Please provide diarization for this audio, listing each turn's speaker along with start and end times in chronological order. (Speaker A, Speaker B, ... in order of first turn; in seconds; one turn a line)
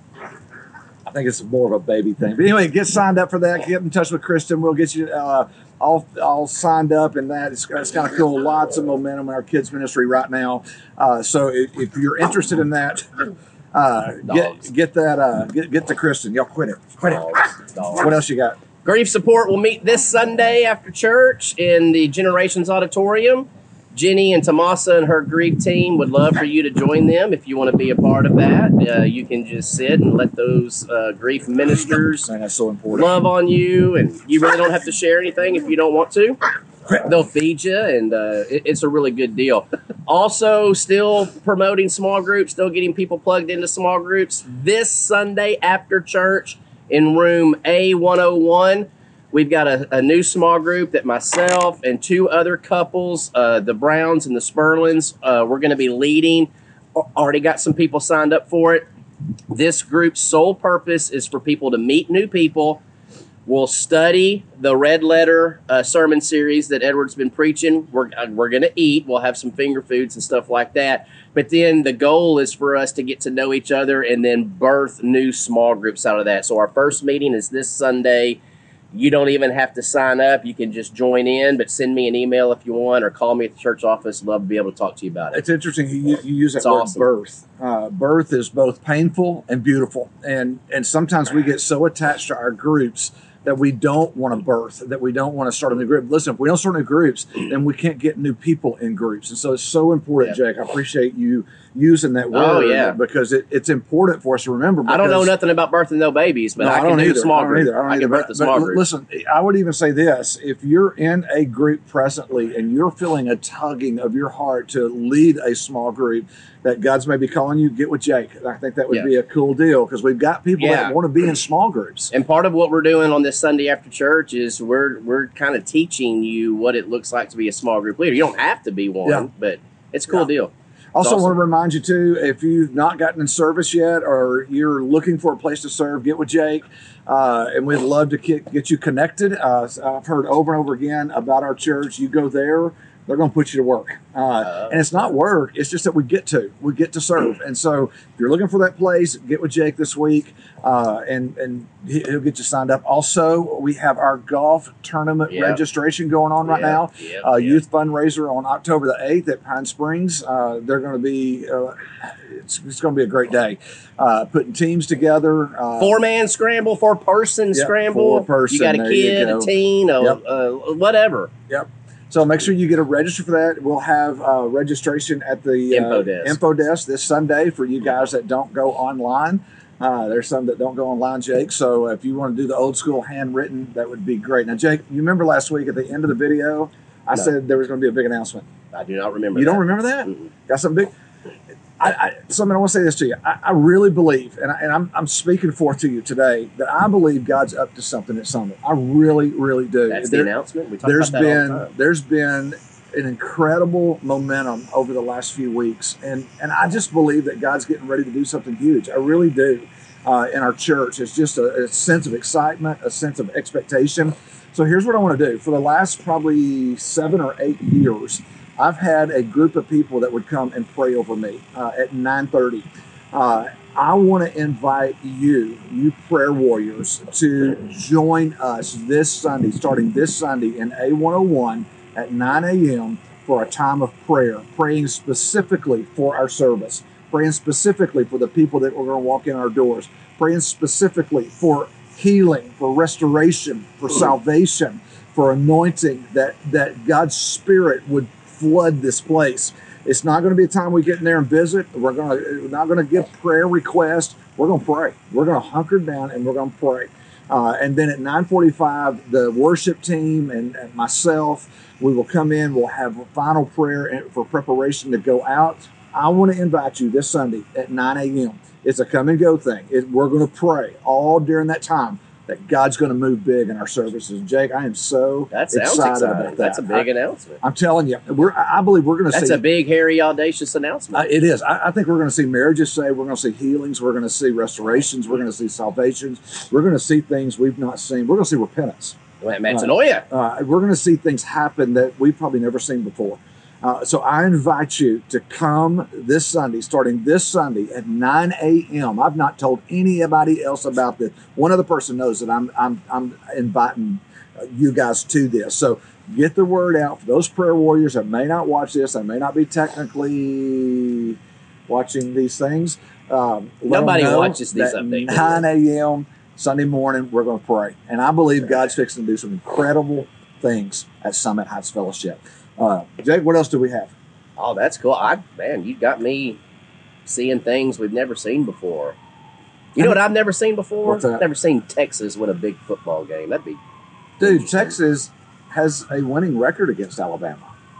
Speaker A: 1.1-18.6
Speaker B: 14.3-14.6
Speaker B: 17.0-18.2
Speaker B: 18.8-32.3
Speaker A: 32.2-33.2
Speaker B: 32.9-36.4
Speaker B: 37.0-58.9
Speaker B: 59.5-62.8
Speaker B: 63.5-78.4
Speaker B: 78.9-85.4
Speaker A: 85.3-105.3
Speaker B: 86.6-87.0
Speaker B: 102.3-103.0
Speaker B: 104.8-108.8
Speaker A: 106.6-122.1
Speaker B: 120.6-121.0
Speaker B: 122.1-131.3
Speaker A: 130.9-166.0
Speaker B: 144.4-145.0
Speaker B: 155.3-155.6
Speaker B: 156.4-157.6
Speaker B: 165.8-171.3
Speaker A: 167.5-170.2
Speaker A: 171.5-188.5
Speaker B: 175.7-176.4
Speaker B: 188.7-190.3
Speaker A: 189.3-190.9
Speaker A: 191.8-200.3
Speaker B: 199.9-201.7
Speaker A: 200.8-276.9
Speaker B: 275.3-277.4
Speaker A: 277.4-279.4
Speaker B: 279.1-281.1
Speaker A: 280.9-289.0
Speaker B: 289.2-290.1
Speaker A: 289.5-323.9
Speaker B: 313.7-315.4
Speaker B: 324.4-326.4
Speaker B: 327.1-328.9
Speaker B: 329.7-333.6
Speaker A: 330.8-331.2
Speaker A: 334.2-337.5
Speaker B: 334.2-334.7